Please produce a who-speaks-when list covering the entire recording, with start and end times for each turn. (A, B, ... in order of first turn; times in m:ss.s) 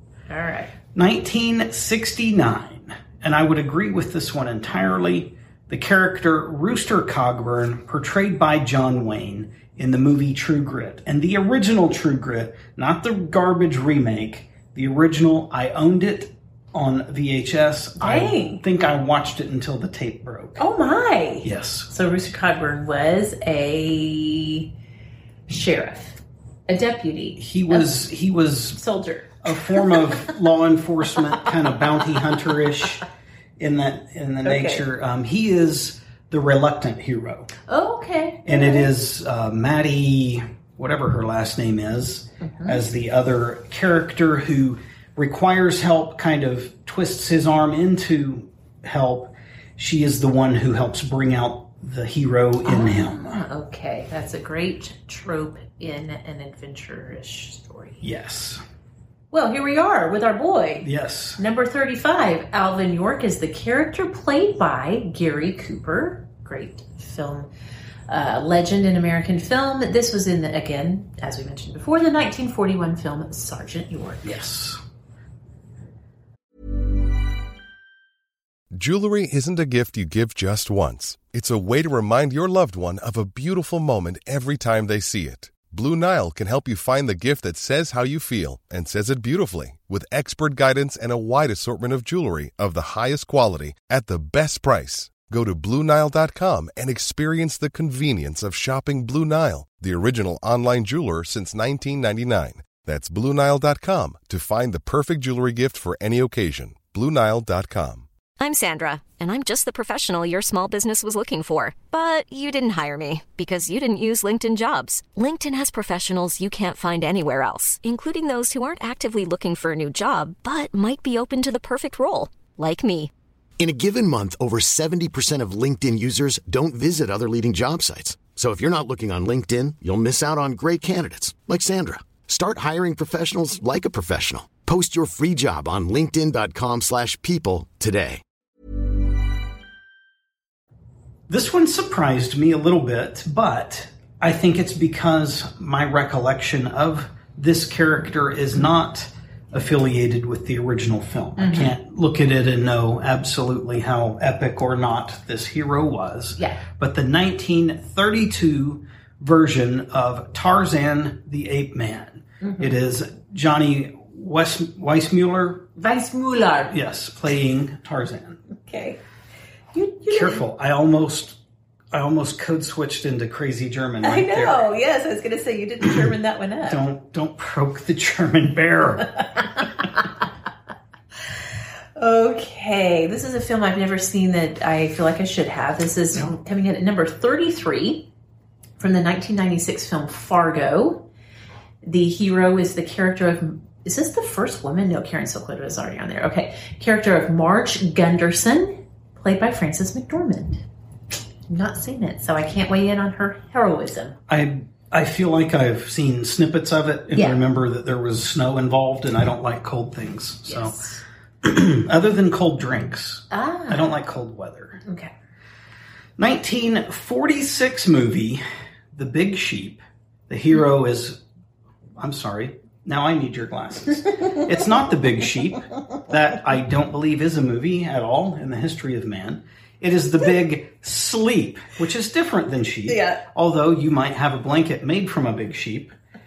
0:00.3-0:00.7 A
0:00.9-0:20.6 B
0:18.0-0:18.6 A
0:20.6-0:24.7 A
0:21.4-0:21.9 B
0:25.5-0:27.9 A
0:27.4-0:28.8 B
0:28.8-0:30.1 A
0:29.4-0:33.0 B
0:33.6-0:37.5 B
0:34.4-0:34.8 A
0:37.7-0:38.9 A
0:38.4-0:53.4 B
0:42.4-0:42.8 A
0:52.6-0:58.0 A
0:58.0-0:58.6 B
0:59.3-1:07.5 A
1:00.8-1:01.4 B
1:08.1-1:14.4 A
1:14.2-1:14.8 B
1:18.7-1:48.1 C
1:48.4-2:03.1 D
2:03.6-2:18.2 E
2:21.3-2:45.7 B
2:31.4-2:31.8 A
2:42.4-2:42.7 A
2:45.8-2:46.8 A
2:46.7-2:48.4 B
2:48.7-2:49.0 A
2:49.7-2:50.4 A
2:50.1-2:51.4 B
2:51.9-2:54.7 B
2:54.0-2:56.8 A
2:56.7-2:59.2 B
3:02.0-3:08.1 A
3:08.8-3:11.1 A
3:11.8-3:20.6 A
3:21.5-3:24.2 A
3:24.3-3:30.8 B
3:27.2-3:27.4 A
3:30.5-3:31.0 A
3:31.4-3:34.8 B
3:33.3-3:34.0 A
3:34.9-3:35.1 A
3:36.2-3:41.2 B
3:42.0-3:56.0 B
3:52.9-3:53.2 A